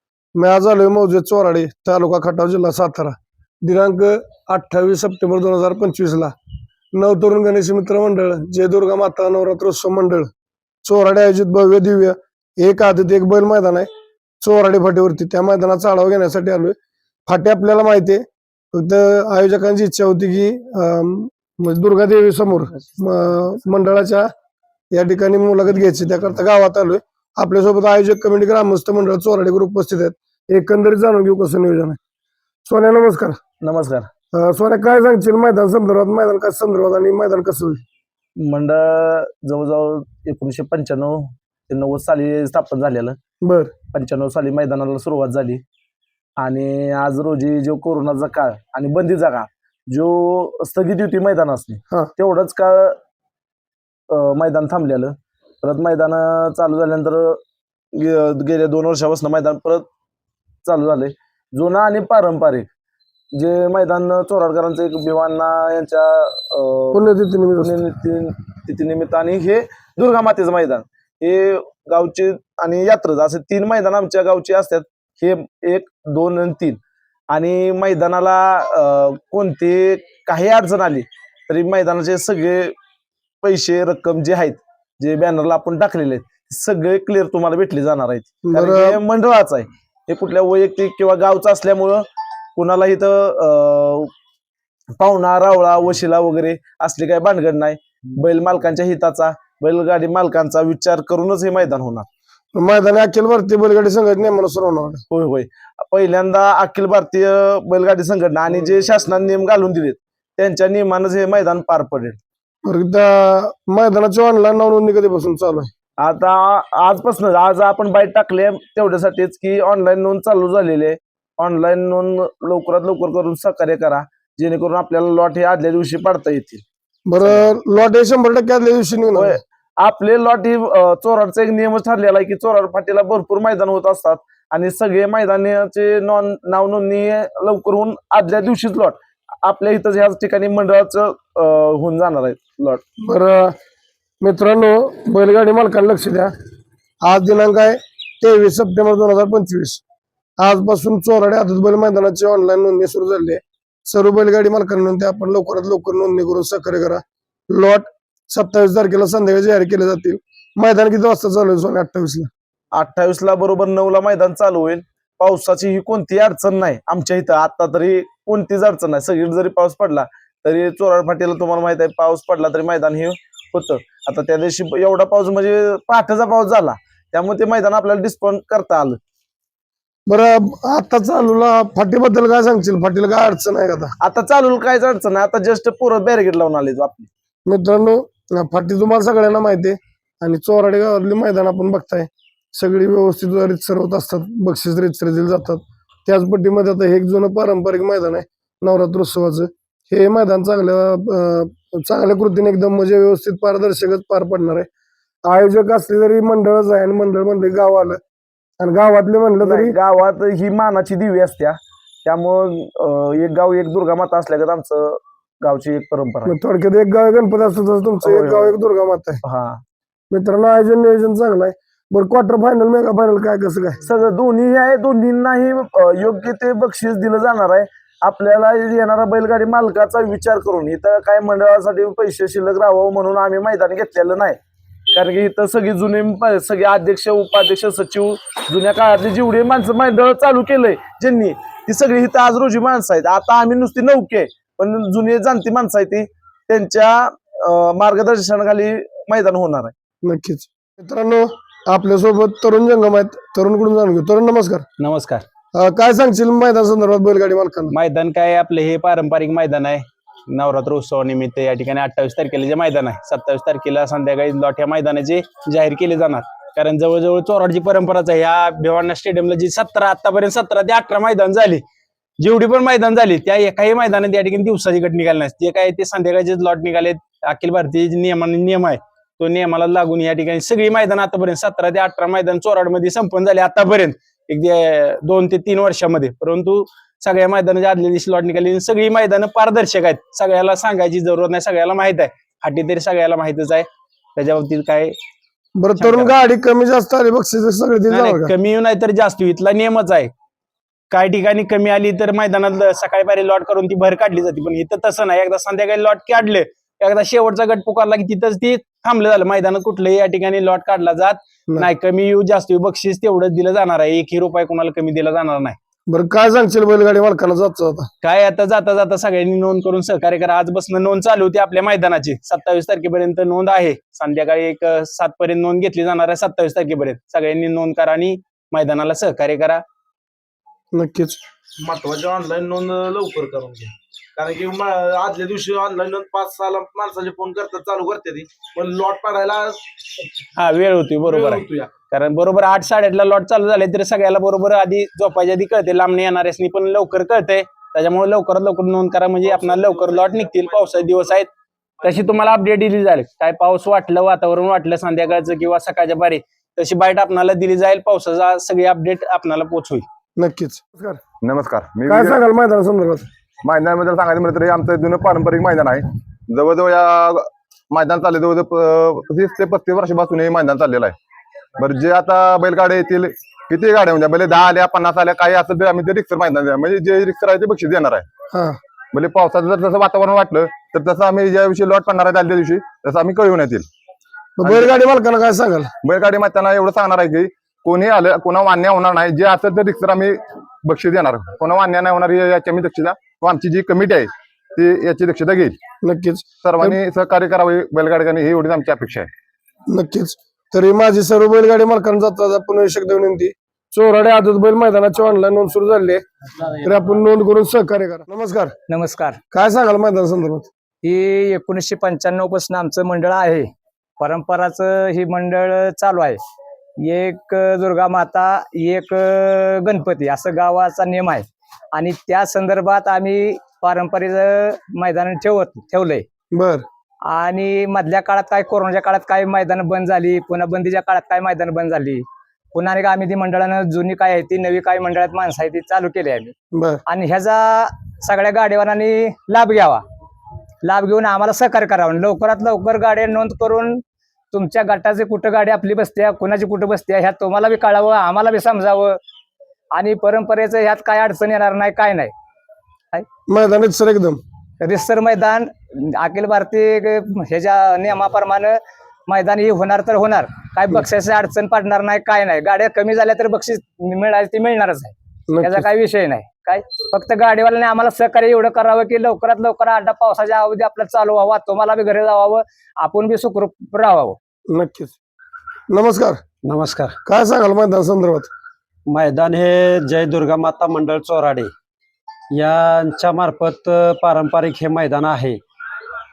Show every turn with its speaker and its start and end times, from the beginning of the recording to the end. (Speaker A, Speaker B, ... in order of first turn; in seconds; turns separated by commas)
Speaker A: 0.3-6.3, Speaker A: 6.9-10.3, Speaker A: 10.8-13.9, Speaker A: 14.4-16.7, Speaker A: 17.3-24.3, Speaker A: 24.9-32.0, Speaker A: 32.6-33.4, Speaker B: 33.6-34.1, Speaker A: 34.3-37.8, Speaker B: 38.4-43.2, Speaker A: 43.4-43.7, Speaker B: 43.9-45.6, Speaker B: 46.4-53.0, Speaker B: 54.1-57.4, Speaker B: 57.9-59.9, Speaker B: 60.6-62.7, Speaker B: 63.3-66.9, Speaker A: 66.9-67.8, Speaker B: 67.6-76.8, Speaker B: 77.3-82.7, Speaker B: 83.4-92.0, Speaker A: 88.4-89.0, Speaker B: 92.5-94.1, Speaker B: 95.0-102.0, Speaker A: 102.5-105.0, Speaker B: 105.1-112.2, Speaker A: 112.6-115.7, Speaker B: 116.0-126.6, Speaker A: 127.0-129.4, Speaker B: 127.2-127.5, Speaker B: 129.1-142.8, Speaker A: 143.0-143.5, Speaker A: 144.2-146.3, Speaker A: 147.0-149.8, Speaker A: 150.4-162.3, Speaker B: 162.7-179.0, Speaker A: 180.1-183.9, Speaker B: 184.0-187.1, Speaker A: 187.4-204.7, Speaker A: 205.2-208.0, Speaker A: 208.6-209.7, Speaker B: 209.4-216.3, Speaker A: 216.2-219.2, Speaker B: 218.0-218.6, Speaker B: 219.2-219.6, Speaker A: 220.1-223.8, Speaker B: 223.8-234.4, Speaker B: 234.9-249.7, Speaker A: 250.0-254.7, Speaker C: 254.8-255.2, Speaker A: 255.5-257.7, Speaker C: 257.7-271.6, Speaker C: 272.2-294.9, Speaker A: 295.6-298.3, Speaker C: 295.8-296.1, Speaker C: 297.9-300.1, Speaker C: 300.9-315.6, Speaker A: 315.9-317.9, Speaker C: 318.0-329.6, Speaker A: 330.7-331.2, Speaker B: 331.6-340.0, Speaker C: 340.4-351.3, Speaker B: 341.0-341.7, Speaker B: 349.2-351.1, Speaker C: 351.8-359.8, Speaker A: 360.2-361.0, Speaker D: 361.2-362.1, Speaker A: 361.9-363.1, Speaker D: 363.4-370.9, Speaker D: 371.6-378.1, Speaker A: 378.3-378.6, Speaker D: 378.9-383.7, Speaker A: 384.4-385.7, Speaker D: 384.4-384.7, Speaker D: 385.8-395.6, Speaker A: 395.8-396.8, Speaker D: 396.4-399.1, Speaker A: 399.7-408.5, Speaker E: 408.7-409.2, Speaker A: 409.3-410.5, Speaker E: 410.8-413.5, Speaker E: 414.0-416.2, Speaker E: 416.8-426.0, Speaker A: 426.3-426.6, Speaker E: 427.1-436.3, Speaker A: 436.5-436.8, Speaker E: 436.9-439.8, Speaker E: 440.6-443.8, Speaker E: 444.3-449.0, Speaker E: 449.7-452.1, Speaker A: 453.3-454.2, Speaker E: 454.6-474.2, Speaker A: 465.3-465.7, Speaker A: 474.5-475.0, Speaker A: 475.7-476.2, Speaker F: 476.4-476.9, Speaker A: 477.0-478.3, Speaker F: 478.9-481.5, Speaker F: 482.3-485.4